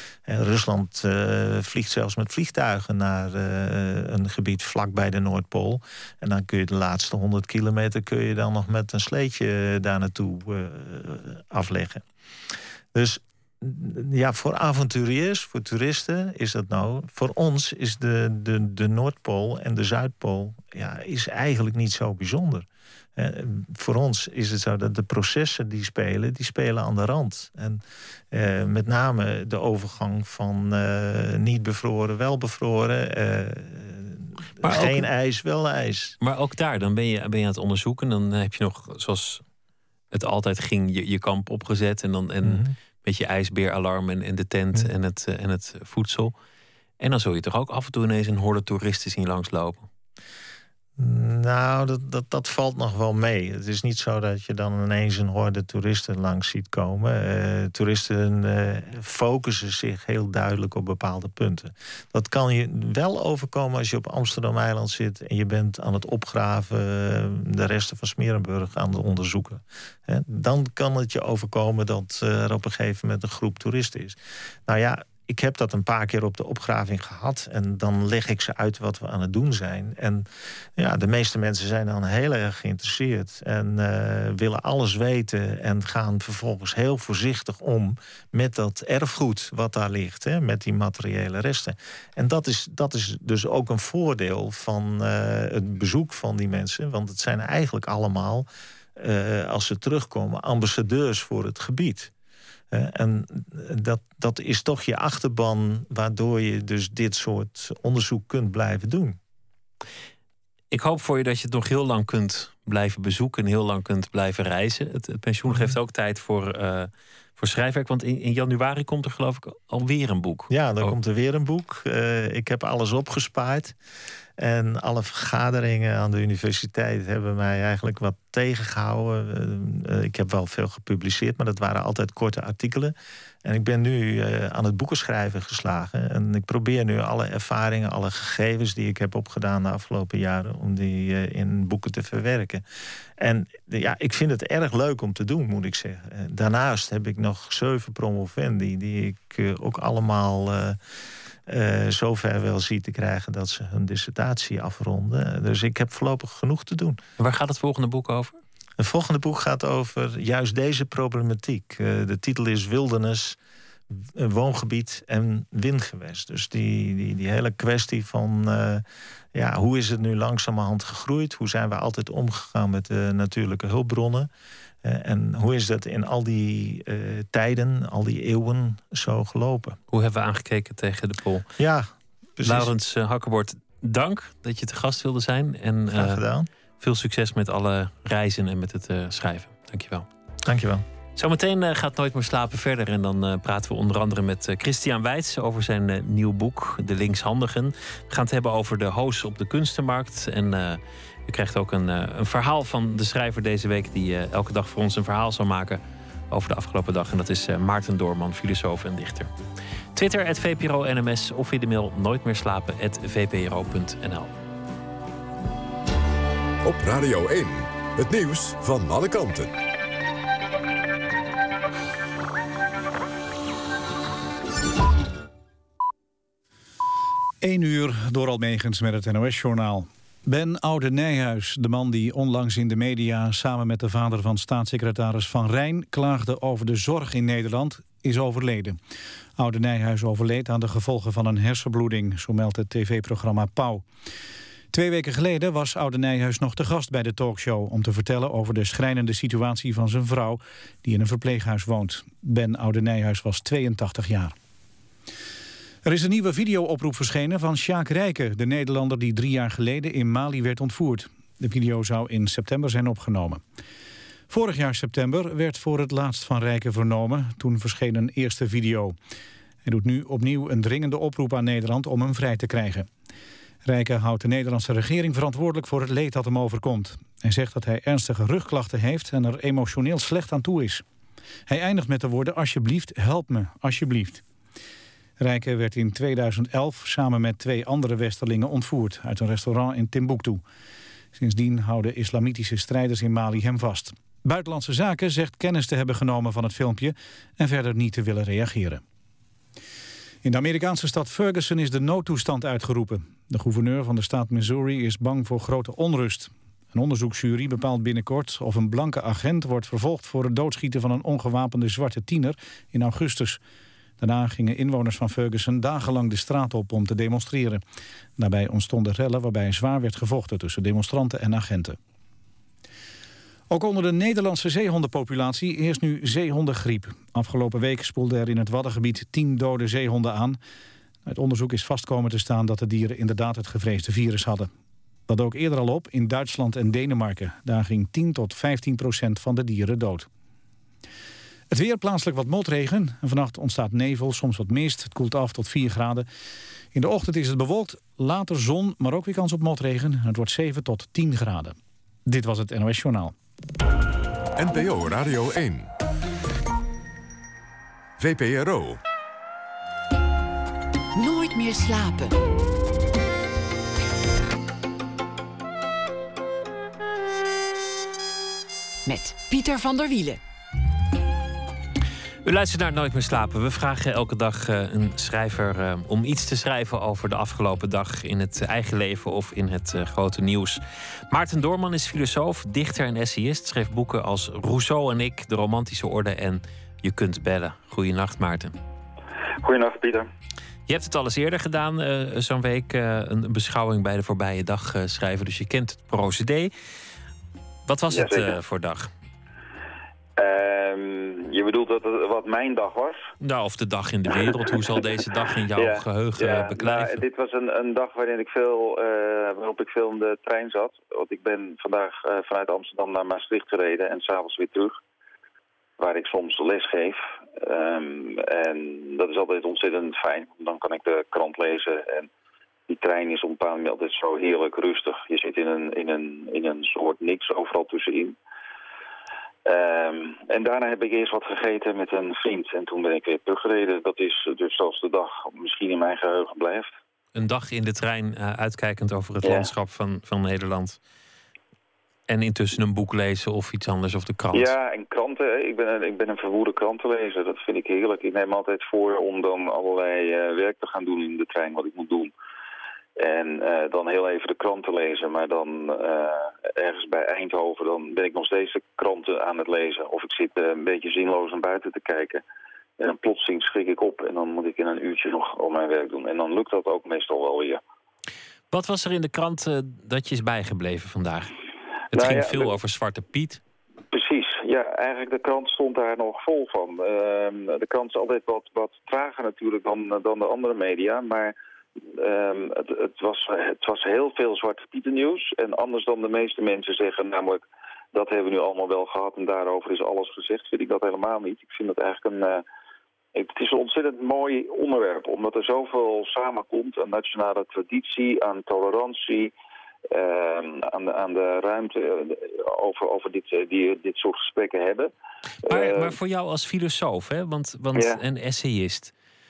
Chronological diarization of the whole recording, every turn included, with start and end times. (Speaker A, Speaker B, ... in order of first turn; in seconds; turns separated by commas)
Speaker A: 0.3-12.0, Speaker A: 12.9-36.1, Speaker B: 34.6-35.1, Speaker B: 36.2-39.4, Speaker B: 40.1-46.3, Speaker A: 42.4-42.7, Speaker B: 47.0-49.9, Speaker A: 51.0-80.3, Speaker A: 80.8-102.1, Speaker A: 102.7-109.2, Speaker B: 110.7-120.9, Speaker A: 115.5-115.8, Speaker A: 120.5-123.7, Speaker A: 124.4-142.6, Speaker A: 143.2-150.8, Speaker A: 151.5-157.0, Speaker B: 157.2-158.4, Speaker A: 158.8-163.4, Speaker A: 164.0-174.3, Speaker A: 174.8-179.8, Speaker B: 179.9-181.4, Speaker A: 181.6-182.7, Speaker B: 182.4-186.2, Speaker A: 185.9-186.5, Speaker B: 186.8-190.1, Speaker A: 190.4-190.8, Speaker B: 191.2-209.3, Speaker B: 209.9-214.3, Speaker C: 216.6-219.5, Speaker D: 227.4-238.8, Speaker D: 239.4-243.8, Speaker D: 244.7-254.3, Speaker D: 255.8-263.4, Speaker D: 264.3-268.9, Speaker D: 269.6-272.9, Speaker D: 273.6-280.8, Speaker D: 281.5-284.2, Speaker D: 285.2-290.4, Speaker D: 291.1-298.8, Speaker D: 300.2-313.4, Speaker D: 314.0-317.6, Speaker D: 318.2-321.8, Speaker D: 323.5-330.4, Speaker D: 331.1-334.5, Speaker D: 335.1-340.1, Speaker D: 341.5-346.1, Speaker D: 346.7-353.1, Speaker C: 354.4-355.7, Speaker C: 358.0-358.8, Speaker E: 360.9-362.1, Speaker E: 368.9-370.2, Speaker B: 372.2-388.6, Speaker F: 389.4-390.1, Speaker B: 390.7-396.5, Speaker B: 397.7-398.9, Speaker F: 397.9-398.4, Speaker F: 400.2-403.1, Speaker B: 403.2-407.0, Speaker F: 404.2-404.5, Speaker F: 405.6-414.8, Speaker F: 415.8-422.1, Speaker F: 422.7-428.1, Speaker F: 429.4-436.7, Speaker B: 437.1-440.8, Speaker F: 439.2-439.5, Speaker B: 442.1-444.5, Speaker F: 444.3-452.1, Speaker F: 453.0-462.2, Speaker F: 462.8-467.6, Speaker B: 468.5-471.3, Speaker F: 471.9-472.5, Speaker B: 471.9-473.4, Speaker F: 473.9-481.3, Speaker F: 481.9-492.4, Speaker F: 493.1-499.3, Speaker F: 499.9-504.9, Speaker F: 505.4-506.0, Speaker B: 505.5-508.9, Speaker F: 507.7-508.0